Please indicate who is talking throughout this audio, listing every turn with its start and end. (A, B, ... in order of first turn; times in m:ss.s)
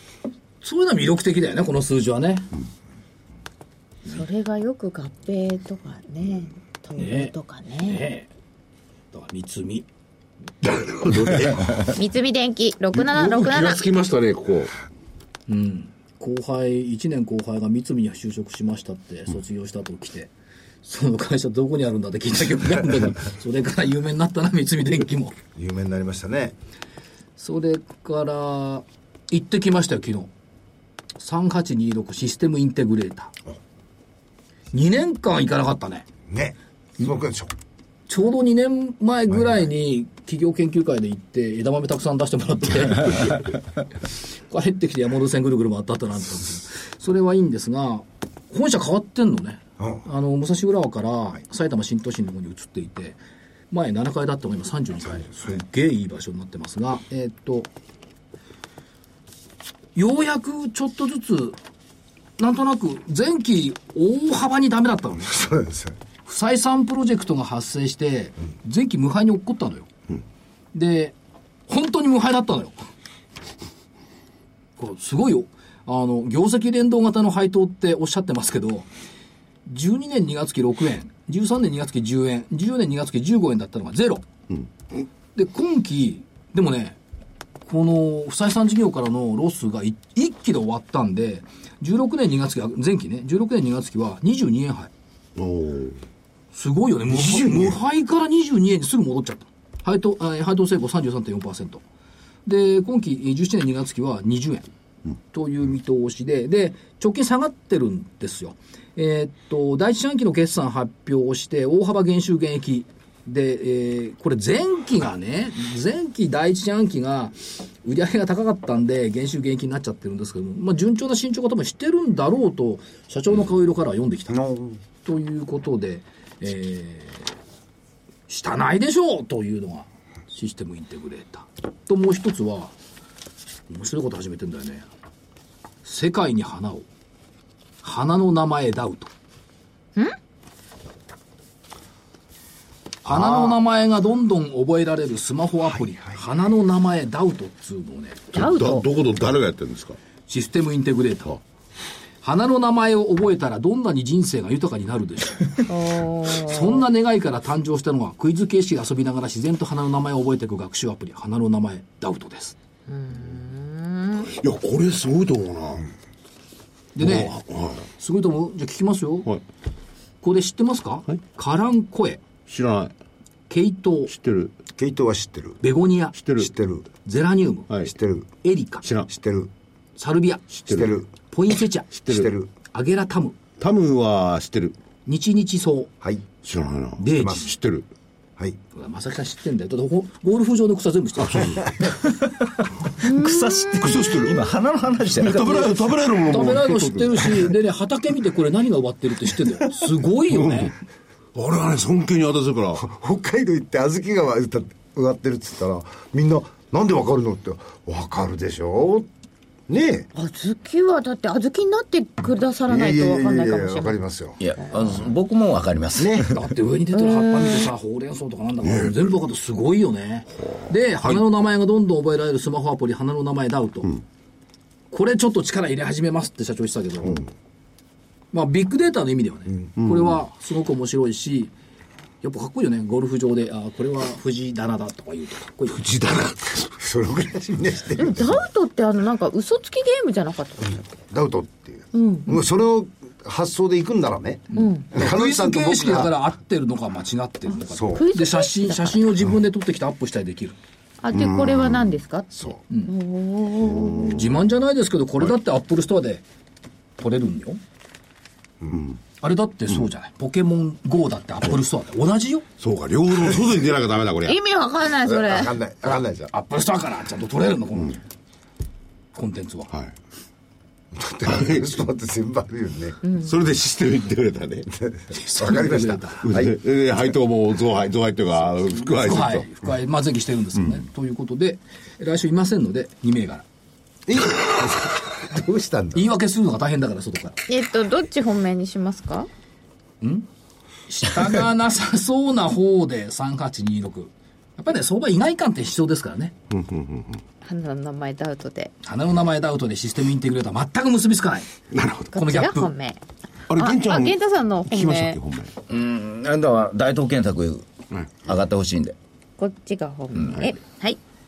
0:00.6-0:02.5 A
0:04.1-0:08.0 B
0:07.0-0:07.3 A
0:07.8-0:08.3 A
0:09.1-0:09.9 A
0:10.6-0:11.9 C
0:11.9-0:13.9 B
0:12.9-0:14.7 C
0:15.5-0:20.3 A
0:20.8-0:25.4 A
0:25.6-0:26.6 D
0:27.4-0:30.3 A
0:31.2-0:33.3 A
0:34.7-0:36.1 A
0:36.3-0:37.5 D
0:38.1-0:43.6 A
0:44.5-0:53.2 A
0:49.8-0:50.0 D
0:53.7-0:57.7 A
1:00.0-1:01.6 A
1:02.4-1:05.4 A
1:05.3-1:06.0 D
1:06.2-1:09.9 A
1:10.7-1:11.1 A
1:11.7-1:12.9 A
1:14.8-1:18.9 A
1:19.7-1:24.3 A
1:25.4-1:27.0 A
1:27.6-1:34.9 A
1:35.4-1:36.0 C
1:36.5-1:41.8 A
1:37.1-1:37.8 D
1:42.4-1:44.7 A
1:45.3-2:04.5 A
2:04.3-2:04.8 D
2:05.0-2:07.3 A
2:08.3-2:12.7 A
2:13.7-2:14.9 A
2:15.8-2:16.9 A
2:17.8-2:19.1 A
2:23.0-2:28.3 A
2:23.1-2:23.6 D
2:28.3-2:30.0 C
2:28.4-2:28.9 B
2:30.3-2:31.4 A
2:32.2-2:35.7 A
2:35.7-2:36.8 B
2:36.3-2:42.6 A
2:42.9-2:44.3 B
2:44.2-2:45.9 C
2:47.0-2:47.4 A
2:47.0-2:47.9 C
2:48.0-2:49.3 A
2:50.2-2:52.2 A
2:52.4-2:52.9 C
2:53.5-2:54.1 A
2:54.1-2:54.6 C
2:54.8-2:55.6 D
2:55.6-2:56.2 A
2:56.2-2:56.5 C
2:56.4-2:56.9 D
2:57.0-2:57.7 A
2:57.9-2:58.3 D
2:58.4-2:58.8 A
2:58.8-2:59.1 C
2:59.1-2:59.5 D
3:00.0-3:00.5 A
3:00.5-3:00.9 C
3:00.7-3:01.1 D
3:01.3-3:02.0 A
3:02.0-3:02.3 C
3:02.1-3:02.5 D
3:02.7-3:03.4 A
3:03.6-3:04.8 C
3:05.1-3:05.9 A
3:06.4-3:07.9 C
3:07.0-3:07.5 A
3:07.2-3:07.4 D
3:08.8-3:11.9 A
3:11.3-3:11.9 C
3:13.0-3:13.9 B
3:13.0-3:15.8 E
3:13.8-3:14.5 C
3:15.1-3:17.4 C
3:16.3-3:20.7 A
3:20.3-3:20.7 C
3:21.4-3:22.8 C
3:22.8-3:29.1 D
3:29.7-3:30.1 D
3:30.1-3:34.0 B
3:32.7-3:34.4 D
3:34.4-3:36.3 E
3:36.0-3:36.4 D
3:36.3-3:44.0 A
3:37.0-3:37.7 B
3:40.5-3:41.2 C
3:44.9-3:47.3 A
3:48.3-3:51.5 A
3:49.8-3:50.2 C
3:52.2-3:55.9 A
3:55.7-3:56.7 C
3:56.8-3:58.4 D
3:58.0-4:00.8 B
4:00.6-4:06.1 D
4:01.9-4:02.4 B
4:04.5-4:10.6 A
4:04.6-4:04.9 B
4:07.6-4:08.1 D
4:07.9-4:09.0 B
4:11.0-4:14.2 B
4:11.1-4:11.9 C
4:13.7-4:14.4 C
4:14.1-4:16.2 A
4:17.0-4:17.6 A
4:19.2-4:22.5 A
4:22.6-4:24.4 C
4:24.2-4:25.6 B
4:25.0-4:26.3 D
4:26.3-4:28.0 A
4:29.1-4:29.7 A
4:30.9-4:33.0 D
4:31.3-4:31.7 C
4:33.0-4:33.3 B
4:33.1-4:34.7 C
4:34.7-4:36.6 D
4:35.1-4:36.2 A
4:36.2-4:39.5 C
4:38.8-4:43.4 A
4:44.1-4:46.1 D
4:46.0-4:47.4 A
4:47.5-4:49.3 B
4:50.0-4:50.3 A
4:50.9-4:56.4 A
4:56.5-4:57.2 C
4:57.4-4:58.7 B
4:58.8-5:01.5 A
5:01.7-5:02.1 C
5:02.1-5:03.0 B
5:02.1-5:02.7 A
5:03.5-5:05.6 C
5:03.5-5:05.2 B
5:05.7-5:07.7 E
5:08.2-5:09.0 E
5:09.4-5:11.0 B